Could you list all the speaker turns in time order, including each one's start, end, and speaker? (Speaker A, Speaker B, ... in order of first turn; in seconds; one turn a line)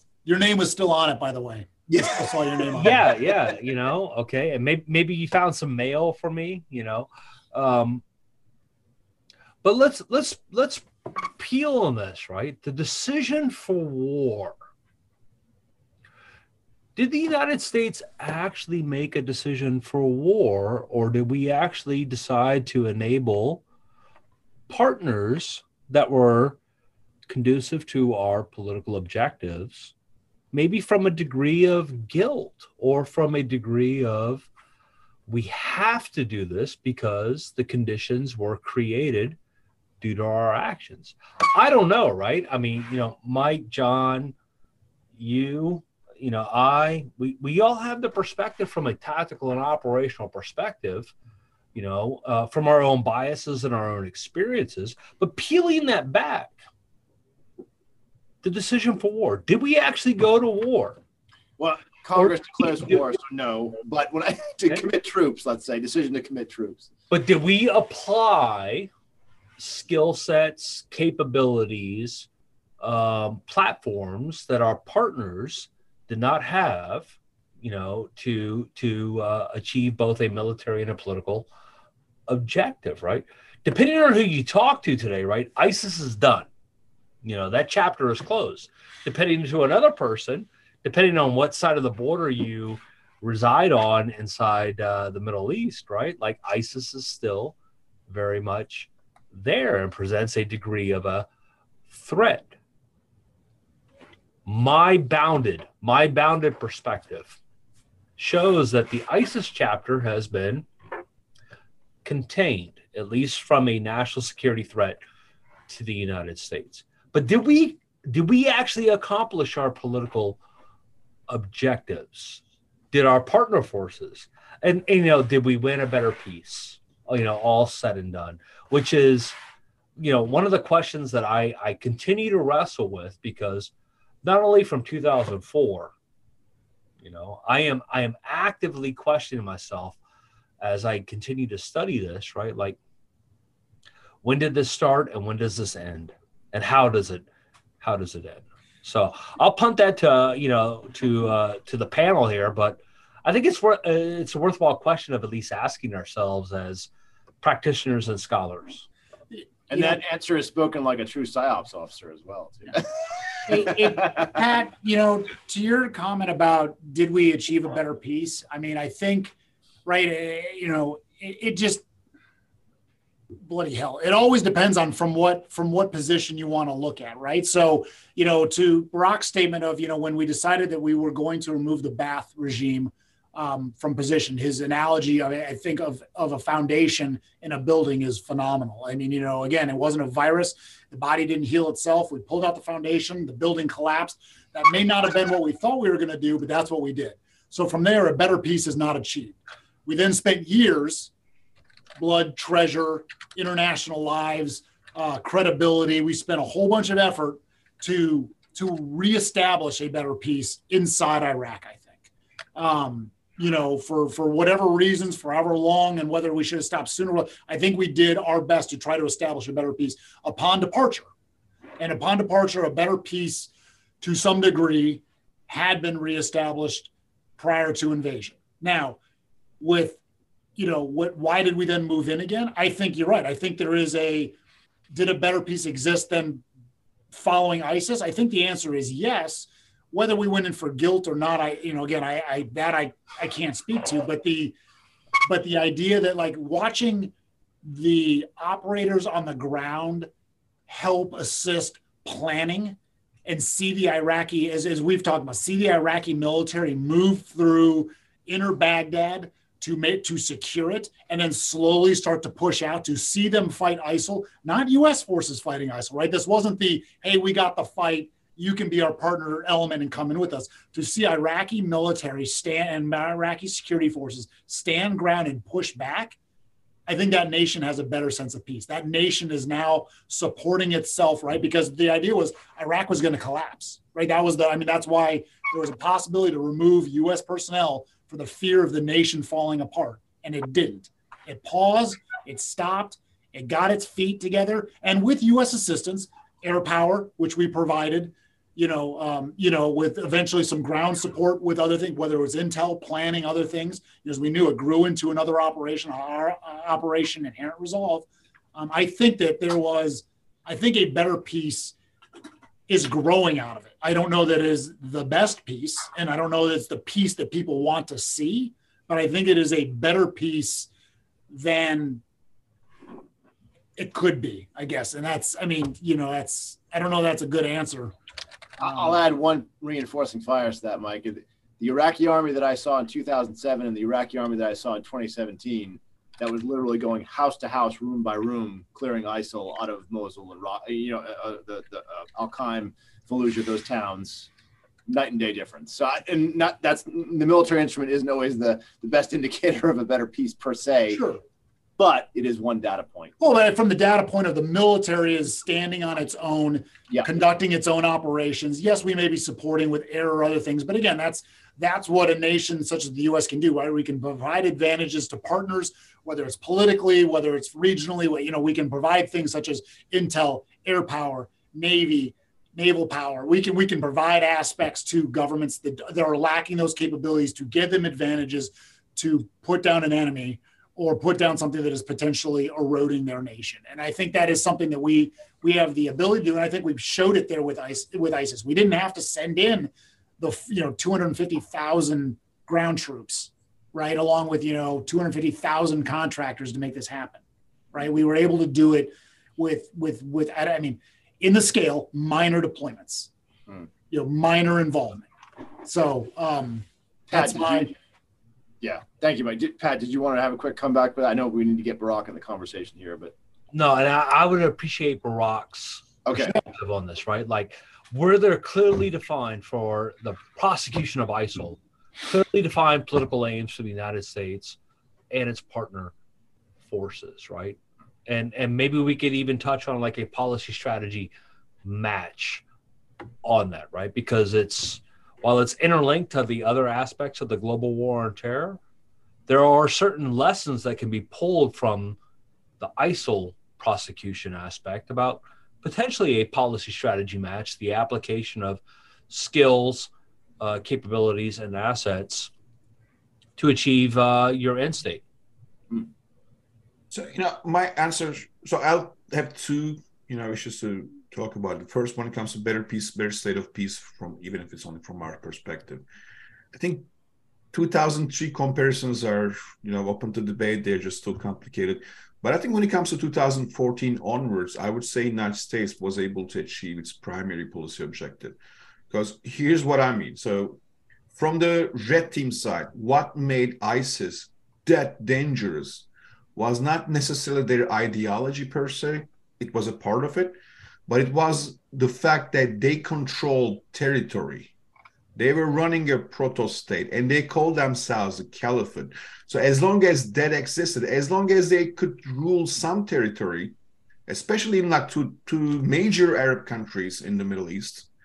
Speaker A: 0.2-3.0
Speaker B: 1.9-2.2
Speaker C: 2.7-8.0
Speaker C: 9.6-14.5
Speaker C: 16.9-23.6
Speaker C: 24.7-26.6
Speaker C: 27.3-29.9
Speaker C: 30.5-34.5
Speaker C: 35.3-39.4
Speaker C: 40.0-44.3
Speaker C: 45.2-51.1
Speaker C: 51.7-56.5
Speaker C: 58.4-61.0
Speaker B: 61.6-66.9
Speaker C: 67.1-68.9
Speaker C: 69.6-72.3
Speaker C: 72.8-77.1
Speaker C: 77.6-81.5
Speaker C: 82.3-86.5
Speaker C: 87.2-97.5
Speaker C: 98.1-101.2
Speaker C: 101.9-102.5
Speaker C: 104.5-107.4
Speaker C: 108.2-110.7
Speaker C: 112.0-115.0
Speaker C: 115.7-120.4
Speaker C: 121.3-122.4
Speaker C: 122.9-129.3
Speaker C: 130.0-133.7
Speaker C: 134.2-135.9
Speaker C: 137.0-139.9
Speaker C: 140.6-142.8
Speaker C: 144.2-147.2
Speaker C: 147.8-156.9
Speaker C: 157.4-158.9
Speaker A: 159.3-160.0
Speaker B: 159.7-164.3
Speaker A: 163.5-169.3
Speaker A: 169.8-171.8
Speaker A: 173.4-201.1
Speaker A: 202.0-212.0
Speaker A: 212.6-221.1
Speaker A: 221.8-229.0
Speaker A: 229.6-230.0
Speaker A: 230.6-234.3
Speaker A: 234.9-236.4
Speaker A: 237.1-244.5
Speaker A: 245.2-250.1
Speaker A: 250.7-276.1
Speaker A: 276.9-311.8
Speaker A: 312.7-320.7
Speaker A: 321.3-322.0
Speaker A: 323.8-327.9
Speaker B: 328.6-344.3
Speaker A: 328.6-329.0
Speaker B: 344.9-351.0
Speaker A: 350.9-351.2
Speaker B: 351.8-353.1
Speaker A: 353.2-397.2
Speaker A: 397.7-403.1
Speaker A: 403.9-405.1
Speaker A: 405.6-407.7
Speaker B: 407.1-407.7
Speaker B: 408.6-413.1
Speaker C: 413.5-424.6
Speaker B: 416.0-416.4
Speaker C: 425.1-425.9
Speaker C: 426.7-431.1
Speaker C: 431.6-432.4
Speaker C: 433.2-438.6
Speaker C: 439.3-442.0
Speaker C: 442.6-452.3
Speaker C: 453.4-455.0
Speaker D: 456.9-465.8
Speaker D: 466.5-466.9
Speaker D: 467.5-478.4
Speaker D: 478.9-480.6
Speaker D: 481.1-494.5
Speaker D: 495.1-503.5
Speaker D: 504.1-507.9